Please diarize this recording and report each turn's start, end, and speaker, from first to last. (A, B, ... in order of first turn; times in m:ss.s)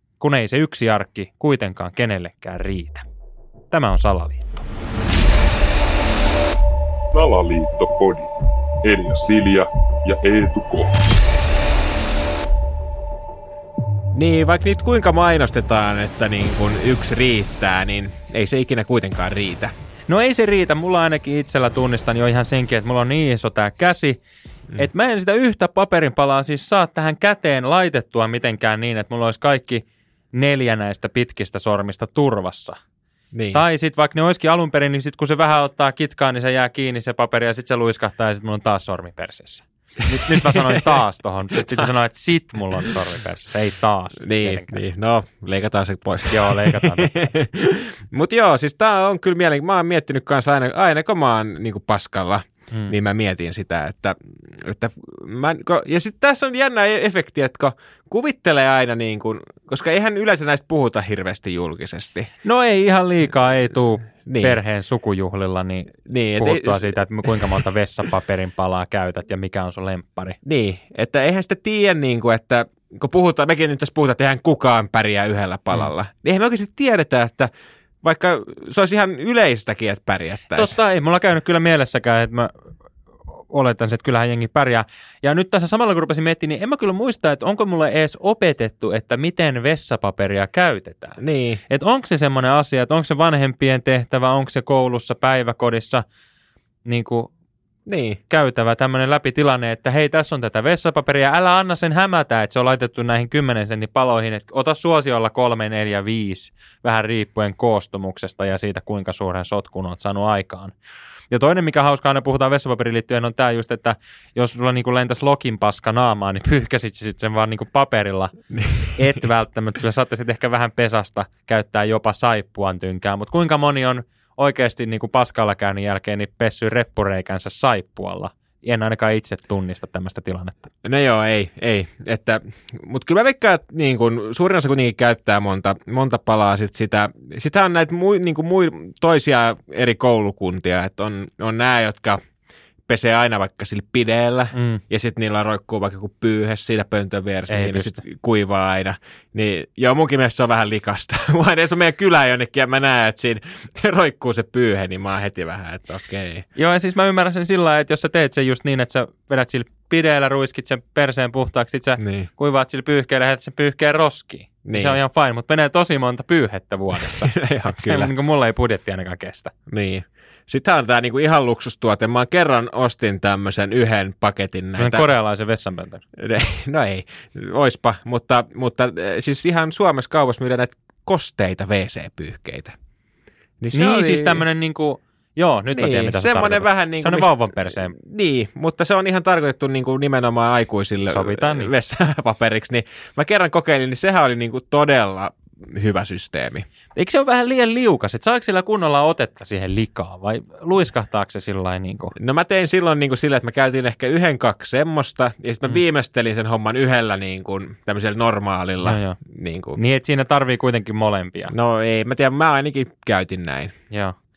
0:00.2-0:03.0 A
0:03.7-0:04.7 A
0:07.1-0:08.3 B
0:08.8-0:11.0 B
0:14.1-0:19.7 C
0:20.1-0:24.2 A
0:24.8-0:32.8 A
0:33.3-0:33.6 C
0:33.5-0:44.8 A
0:40.4-0:40.8 C
0:41.6-0:41.9 C
0:44.2-1:02.3 C
0:46.3-0:47.3 A
1:02.4-1:10.4 A
1:04.2-1:04.6 C
1:06.0-1:07.5 C
1:10.4-1:17.5 C
1:18.0-1:20.8 C
1:20.5-1:22.5 A
1:23.3-1:36.0 A
1:31.2-1:31.6 C
1:36.8-1:37.3 A
1:37.9-1:38.2 C
1:38.3-1:50.7 A
1:51.3-1:58.3 A
1:58.5-1:59.2 C
1:59.0-2:10.7 A
2:10.8-2:22.2 C
2:22.9-2:36.5 C
2:24.5-2:24.8 A
2:27.5-2:28.0 A
2:36.6-2:49.5 A
2:42.0-2:42.3 C
2:44.6-2:45.0 C
2:47.0-2:48.1 C
2:49.7-2:55.1 C
2:54.8-2:56.0 A
2:56.2-3:02.8 C
3:03.6-3:04.4 C
3:03.7-3:08.0 A
3:05.7-3:16.7 C
3:11.1-3:11.7 A
3:17.0-3:22.2 A
3:22.2-3:29.8 C
3:28.8-3:29.2 A
3:29.8-3:31.5 A
3:31.5-3:33.7 C